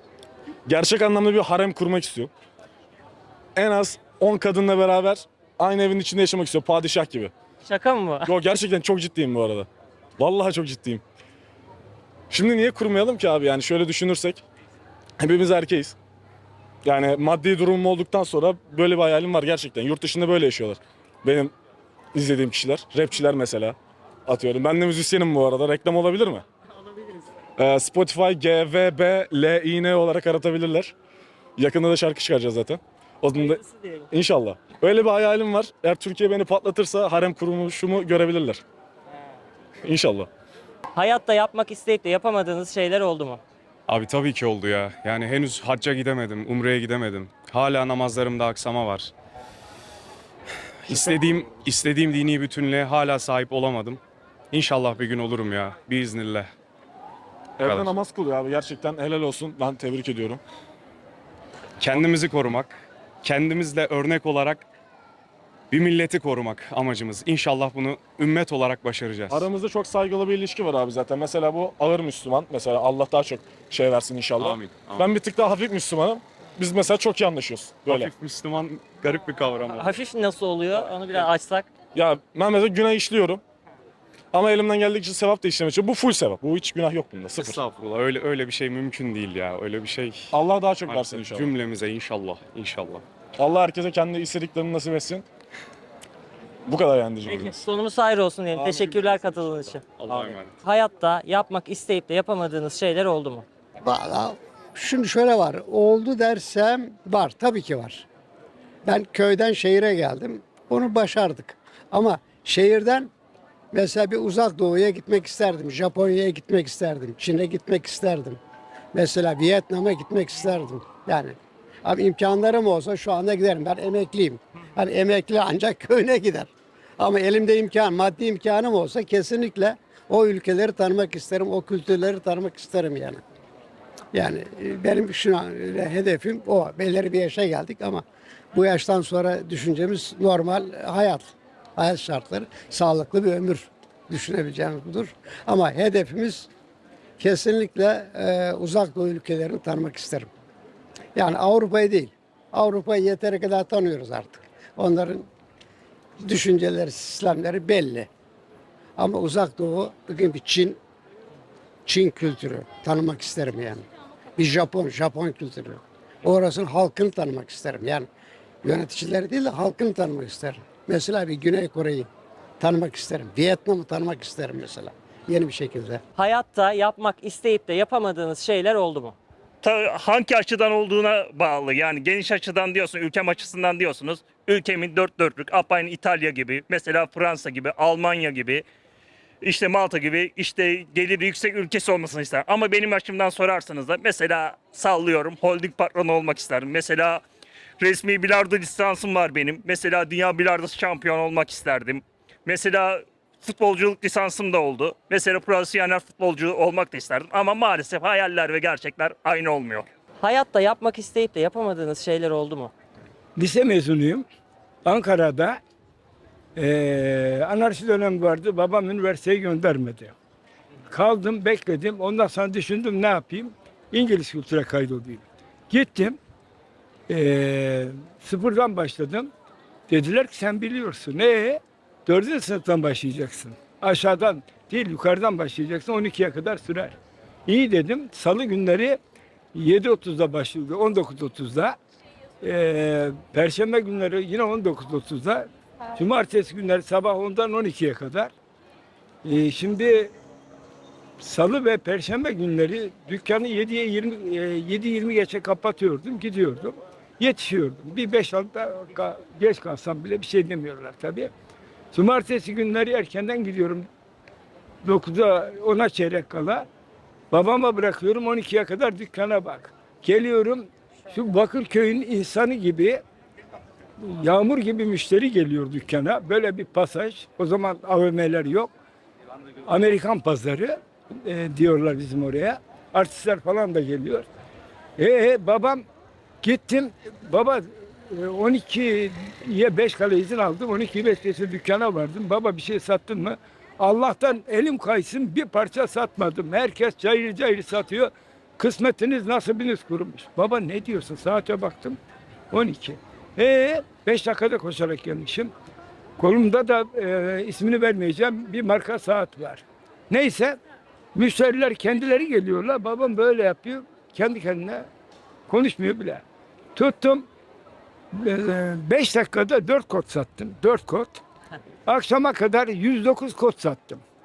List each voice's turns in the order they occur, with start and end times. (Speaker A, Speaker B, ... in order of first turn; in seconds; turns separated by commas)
Speaker A: 0.7-2.3, Speaker A: 3.5-7.3, Speaker B: 7.6-8.3, Speaker A: 8.2-11.0, Speaker A: 12.3-14.4, Speaker A: 15.2-16.0, Speaker A: 16.8-21.5, Speaker A: 22.1-26.4, Speaker A: 27.6-30.9, Speaker A: 31.6-38.6, Speaker B: 33.4-33.9, Speaker A: 39.8-40.3, Speaker B: 40.9-43.4, Speaker C: 43.9-49.1, Speaker C: 50.9-54.0, Speaker A: 50.9-51.2, Speaker C: 54.5-56.5, Speaker A: 57.6-60.4, Speaker C: 57.6-57.9, Speaker C: 61.8-64.6, Speaker C: 65.7-69.5, Speaker A: 69.3-78.1, Speaker C: 74.4-75.1, Speaker C: 77.8-79.9, Speaker B: 79.7-81.7, Speaker A: 81.9-83.4, Speaker A: 84.3-87.6, Speaker C: 87.4-90.3, Speaker A: 90.3-91.5, Speaker C: 90.8-93.0, Speaker A: 93.4-95.2, Speaker A: 96.7-97.5, Speaker B: 97.3-99.8, Speaker A: 98.6-99.2, Speaker C: 100.0-100.4, Speaker B: 100.6-103.5, Speaker D: 103.8-108.0, Speaker D: 108.8-113.1, Speaker D: 113.7-118.4, Speaker D: 118.9-133.2, Speaker D: 134.1-146.5, Speaker D: 147.2-150.3, Speaker D: 151.1-155.3, Speaker D: 156.2-158.1, Speaker D: 159.0-160.8, Speaker D: 161.8-163.8, Speaker D: 164.4-168.1, Speaker D: 168.6-172.1, Speaker D: 172.6-176.0, Speaker B: 176.2-179.2, Speaker E: 179.6-188.6, Speaker E: 189.4-197.2, Speaker E: 197.8-209.9, Speaker B: 210.2-212.7, Speaker F: 213.3-214.2, Speaker F: 214.8-215.6, Speaker F: 216.6-220.1, Speaker F: 220.9-226.2, Speaker F: 227.1-229.3, Speaker F: 229.9-236.9, Speaker F: 237.5-239.0, Speaker F: 239.5-241.8, Speaker F: 242.4-248.3, Speaker F: 249.2-250.1, Speaker F: 251.2-261.3, Speaker F: 261.9-263.9, Speaker F: 264.8-266.7, Speaker F: 267.3-273.0, Speaker F: 274.0-278.7, Speaker F: 279.6-284.2, Speaker F: 285.0-285.8, Speaker F: 286.4-302.0, Speaker F: 302.5-305.5, Speaker F: 306.2-310.6, Speaker F: 311.1-314.9, Speaker F: 315.5-316.2, Speaker F: 316.7-317.3, Speaker F: 318.1-321.2, Speaker F: 321.9-324.0